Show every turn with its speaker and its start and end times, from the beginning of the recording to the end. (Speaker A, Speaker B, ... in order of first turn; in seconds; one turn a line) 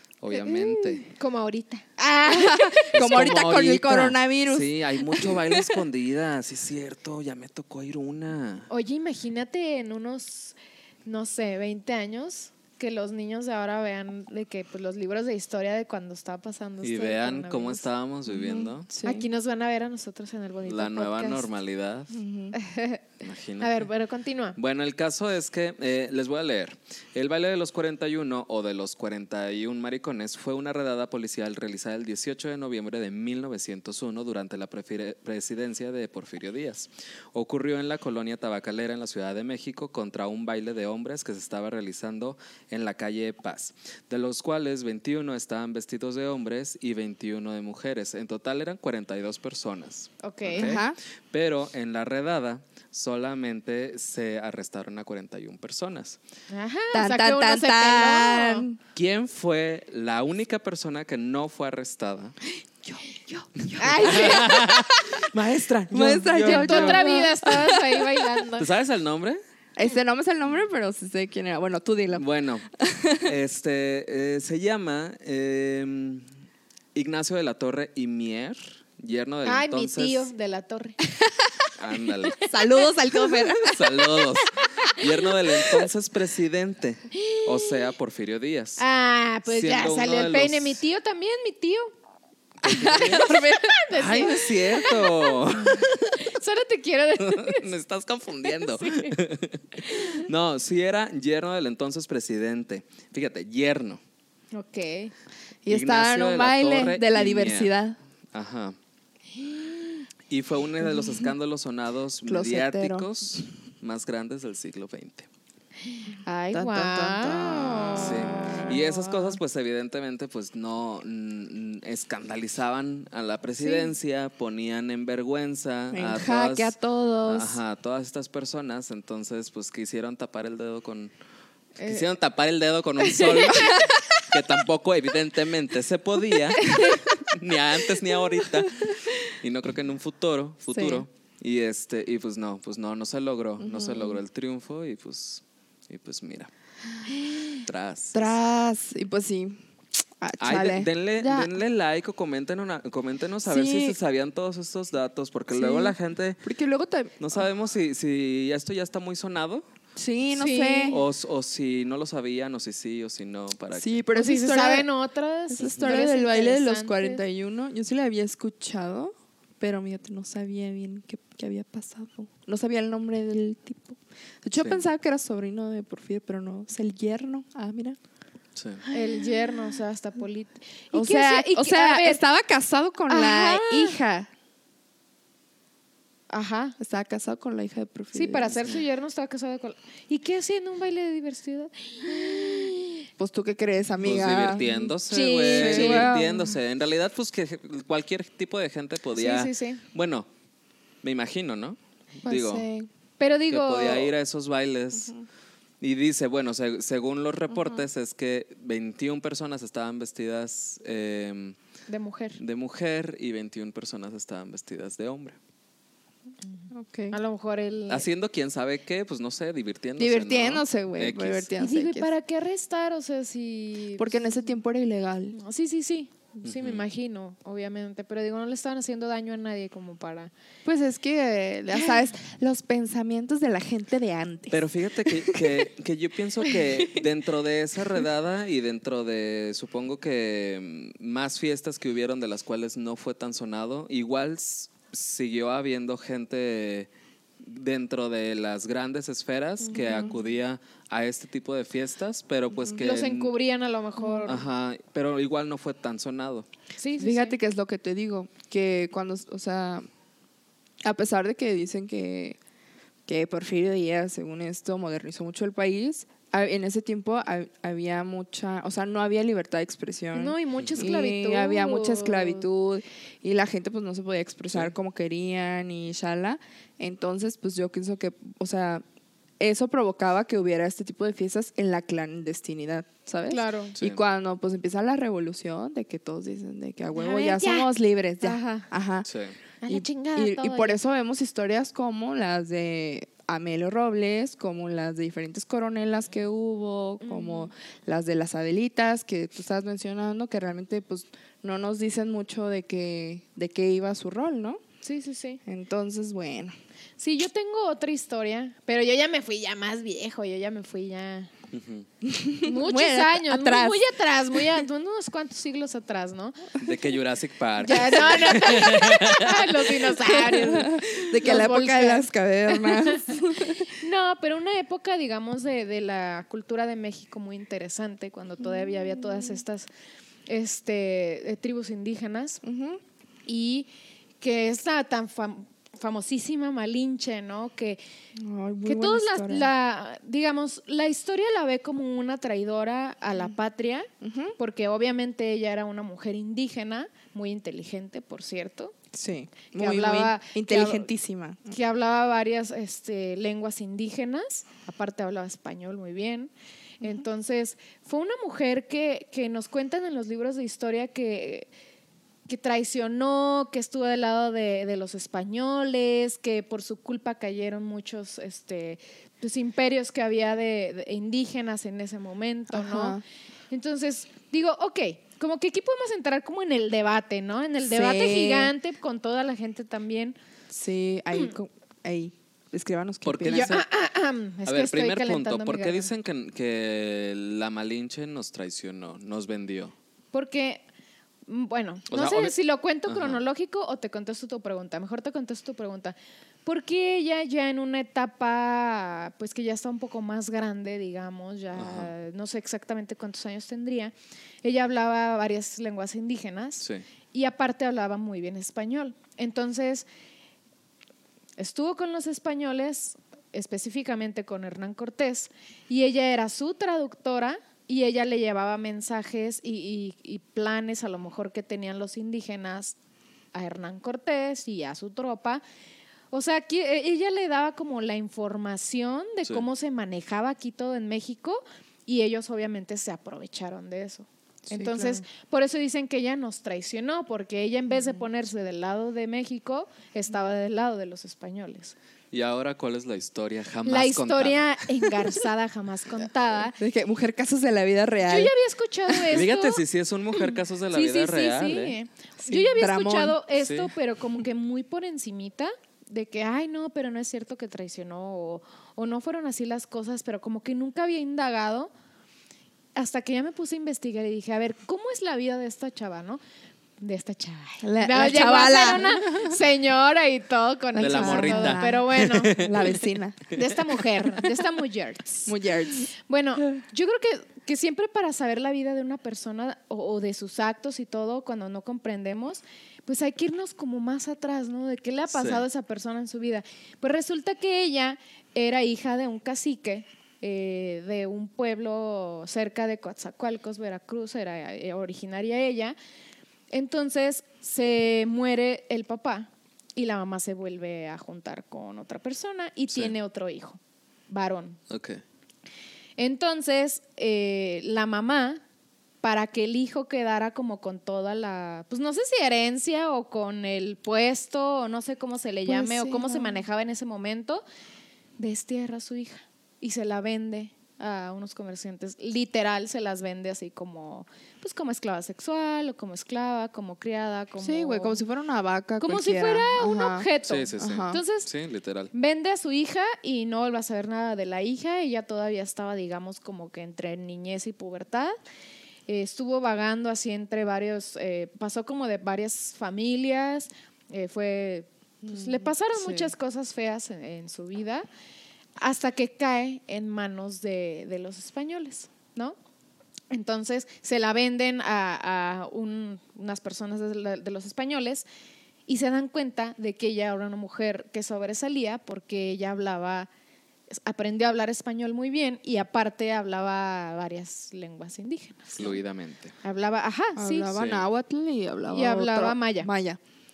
Speaker A: 0.2-1.1
Speaker B: 0.3-2.9
Speaker C: 2.2-5.8
Speaker A: 2.9-8.7
Speaker B: 8.7-17.8
Speaker A: 16.8-18.9
Speaker C: 18.3-19.3
Speaker B: 19.0-21.5
Speaker A: 20.6-22.1
Speaker C: 22.1-22.6
Speaker B: 22.6-23.0
Speaker A: 23.2-23.9
Speaker B: 23.6-24.6
Speaker A: 24.6-56.2
Speaker B: 50.2-50.8
Speaker C: 50.5-51.0
Speaker B: 56.5-58.6
Speaker C: 56.9-58.8
Speaker A: 58.9-62.3
Speaker C: 62.8-65.0
Speaker B: 63.8-64.6
Speaker A: 64.0-67.1
Speaker C: 65.9-68.4
Speaker B: 66.3-68.7
Speaker A: 68.6-69.4
Speaker C: 69.8-72.2
Speaker A: 72.1-72.6
Speaker C: 72.8-73.3
Speaker A: 73.2-76.2
Speaker A: 76.9-80.3
Speaker B: 79.4-81.0
Speaker A: 81.8-82.4
Speaker C: 82.4-85.0
Speaker A: 83.6-88.8
Speaker B: 87.1-87.8
Speaker B: 88.8-91.9
Speaker A: 89.5-90.8
Speaker A: 92.6-93.3
Speaker C: 92.7-93.7
Speaker B: 92.8-97.7
Speaker A: 93.9-96.2
Speaker A: 97.2-104.0
Speaker B: 98.6-99.1
Speaker B: 99.8-100.3
Speaker B: 104.5-105.1
Speaker C: 105.6-108.0
Speaker A: 105.7-107.7
Speaker A: 108.3-108.8
Speaker B: 109.4-110.0
Speaker A: 110.3-115.3
Speaker C: 112.2-113.1
Speaker B: 115.8-119.3
Speaker C: 116.2-118.7
Speaker A: 118.0-126.7
Speaker C: 125.9-127.6
Speaker A: 127.3-131.1
Speaker B: 131.8-132.1
Speaker A: 131.8-146.5
Speaker B: 133.0-133.8
Speaker C: 136.7-137.0
Speaker C: 138.5-138.9
Speaker C: 140.7-141.0
Speaker C: 143.6-144.2
Speaker C: 147.0-147.6
Speaker A: 147.7-148.3
Speaker C: 148.1-149.6
Speaker C: 150.2-151.5
Speaker A: 150.4-156.4
Speaker C: 153.4-153.9
Speaker C: 155.5-157.4
Speaker A: 157.2-159.7
Speaker C: 159.9-161.0
Speaker B: 160.3-161.0
Speaker A: 160.9-164.0
Speaker C: 163.7-164.9
Speaker B: 164.1-167.2
Speaker C: 165.5-178.0
Speaker A: 178.6-178.8
Speaker C: 178.8-179.4
Speaker B: 178.9-182.2
Speaker C: 180.9-184.3
Speaker B: 183.1-184.0
Speaker B: 186.3-186.7
Speaker C: 186.8-188.5
Speaker B: 188.1-193.1
Speaker C: 193.2-194.9
Speaker A: 194.0-200.3
Speaker B: 195.1-196.3
Speaker C: 195.5-196.5
Speaker B: 199.2-199.8
Speaker A: 201.0-202.7
Speaker C: 202.2-202.9
Speaker B: 203.2-204.1
Speaker A: 203.5-205.1
Speaker C: 205.0-205.2
Speaker A: 205.8-211.6
Speaker B: 207.5-207.8
Speaker B: 211.9-212.4
Speaker A: 212.4-215.4
Speaker B: 216.6-218.1
Speaker C: 216.7-217.2
Speaker A: 217.9-221.5
Speaker C: 220.0-222.1
Speaker B: 221.6-224.5
Speaker C: 224.0-225.4
Speaker B: 225.3-230.3
Speaker A: 226.4-226.8
Speaker C: 230.6-235.6
Speaker A: 234.5-253.3
Speaker B: 249.7-250.2
Speaker C: 249.7-250.1
Speaker B: 252.7-254.4
Speaker C: 254.0-254.3
Speaker A: 254.2-256.5
Speaker B: 256.8-257.4
Speaker C: 257.0-259.9
Speaker C: 260.8-262.4
Speaker C: 263.1-278.8
Speaker B: 270.1-272.4
Speaker A: 270.6-270.8
Speaker C: 279.4-289.1
Speaker B: 283.3-283.8
Speaker A: 283.8-284.0
Speaker B: 286.9-288.7
Speaker A: 289.0-289.4
Speaker B: 289.6-290.8
Speaker C: 289.7-304.6
Speaker B: 297.0-297.5
Speaker B: 304.8-305.4
Speaker C: 305.4-306.5
Speaker B: 307.0-311.3
Speaker A: 311.5-311.9
Speaker C: 312.0-313.8
Speaker B: 312.4-316.5
Speaker C: 314.3-314.6
Speaker A: 316.6-319.9
Speaker B: 317.6-329.7
Speaker C: 320.0-323.7
Speaker C: 328.4-329.4
Speaker B: 330.3-332.4
Speaker C: 332.4-332.8
Speaker B: 333.2-333.7
Speaker B: 334.2-337.8
Speaker C: 338.2-339.5
Speaker B: 338.6-343.9
Speaker C: 344.0-344.3
Speaker B: 344.4-348.7
Speaker C: 348.9-351.5
Speaker B: 349.5-350.9
Speaker B: 351.5-361.5
Speaker B: 362.3-380.2
Speaker C: 372.5-373.0
Speaker C: 377.6-378.5
Speaker C: 380.5-383.5
Speaker A: 383.0-383.6
Speaker B: 383.3-385.9
Speaker A: 384.4-389.7
Speaker B: 390.1-390.6
Speaker B: 391.3-409.9
Speaker A: 391.9-392.3
Speaker A: 392.9-393.2
Speaker A: 401.6-401.9
Speaker B: 411.4-422.7
Speaker B: 423.3-425.4
Speaker B: 426.1-441.7
Speaker C: 434.5-435.0
Speaker A: 442.1-444.6
Speaker B: 443.6-446.6
Speaker C: 446.6-448.3
Speaker B: 448.1-449.6
Speaker A: 449.1-451.8
Speaker B: 450.1-461.7
Speaker C: 452.3-453.2
Speaker A: 453.4-453.7
Speaker B: 462.8-466.2
Speaker B: 466.8-472.5
Speaker C: 467.6-469.3
Speaker C: 470.7-473.3
Speaker A: 470.8-473.7
Speaker B: 473.3-475.3
Speaker C: 475.2-475.9
Speaker B: 475.9-495.8
Speaker A: 485.1-485.4
Speaker B: 496.5-503.6
Speaker A: 502.7-502.9
Speaker B: 504.1-504.6
Speaker A: 504.7-505.0
Speaker B: 506.0-508.4
Speaker B: 509.0-517.4
Speaker C: 515.5-516.4
Speaker B: 518.2-528.0
Speaker C: 527.4-531.0
Speaker B: 528.8-531.3
Speaker A: 530.2-531.9
Speaker B: 531.9-538.1
Speaker B: 538.9-547.9
Speaker C: 545.0-546.1
Speaker B: 548.6-552.3
Speaker B: 553.1-558.0
Speaker B: 558.7-563.1
Speaker B: 563.7-568.8
Speaker A: 568.6-569.3
Speaker B: 569.4-570.5
Speaker C: 570.1-573.0
Speaker A: 570.5-570.8
Speaker B: 571.7-572.7